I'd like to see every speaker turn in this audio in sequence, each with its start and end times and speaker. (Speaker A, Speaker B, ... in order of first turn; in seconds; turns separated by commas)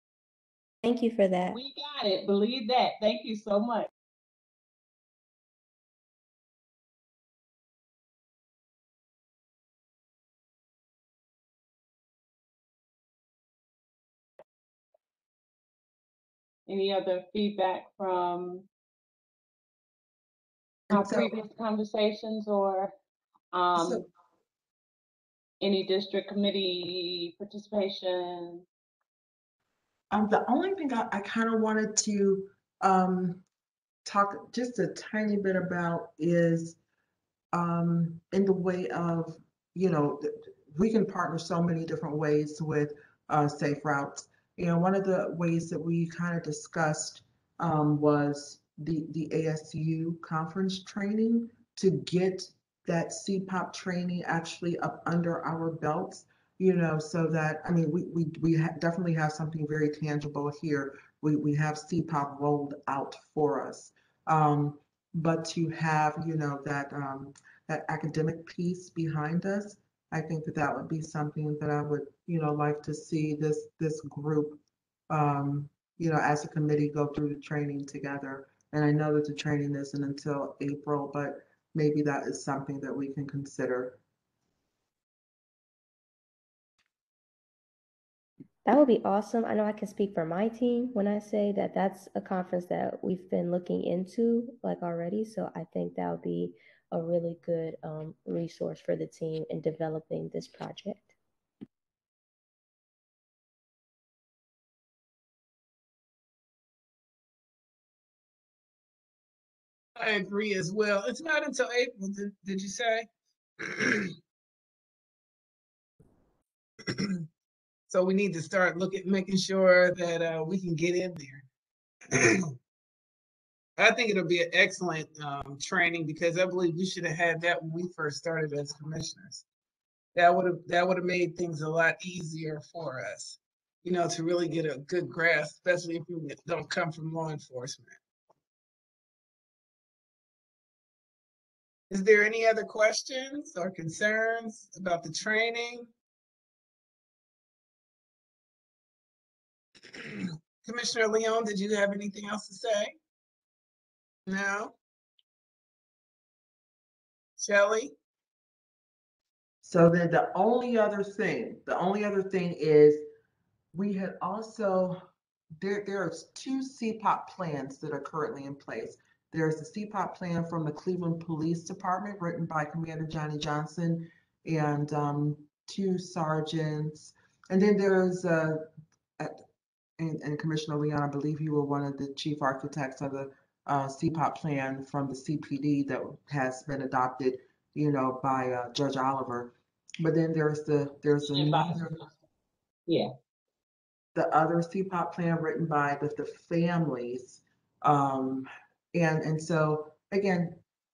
Speaker A: 0.8-1.6, Speaker B: 1.5-3.9, Speaker B: 16.7-18.7, Speaker C: 20.9-21.4, Speaker B: 20.9-22.9, Speaker B: 23.5-24.1, Speaker C: 23.8-24.1, Speaker B: 25.6-28.6, Speaker C: 30.1-33.4, Speaker C: 34.1-36.8, Speaker C: 37.5-84.0, Speaker A: 88.7-101.1, Speaker D: 110.0-113.1, Speaker D: 113.6-114.1, Speaker D: 116.8-117.2, Speaker D: 117.9-121.5, Speaker D: 122.1-122.5, Speaker D: 123.8-129.4, Speaker D: 130.2-138.0, Speaker D: 141.9-145.9, Speaker D: 149.9-152.9, Speaker D: 154.3-154.8, Speaker D: 157.4-157.9, Speaker C: 159.6-163.0, Speaker C: 163.7-165.0, Speaker C: 165.6-179.3, Speaker C: 180.0-192.0, Speaker B: 191.3-191.9, Speaker C: 194.2-200.6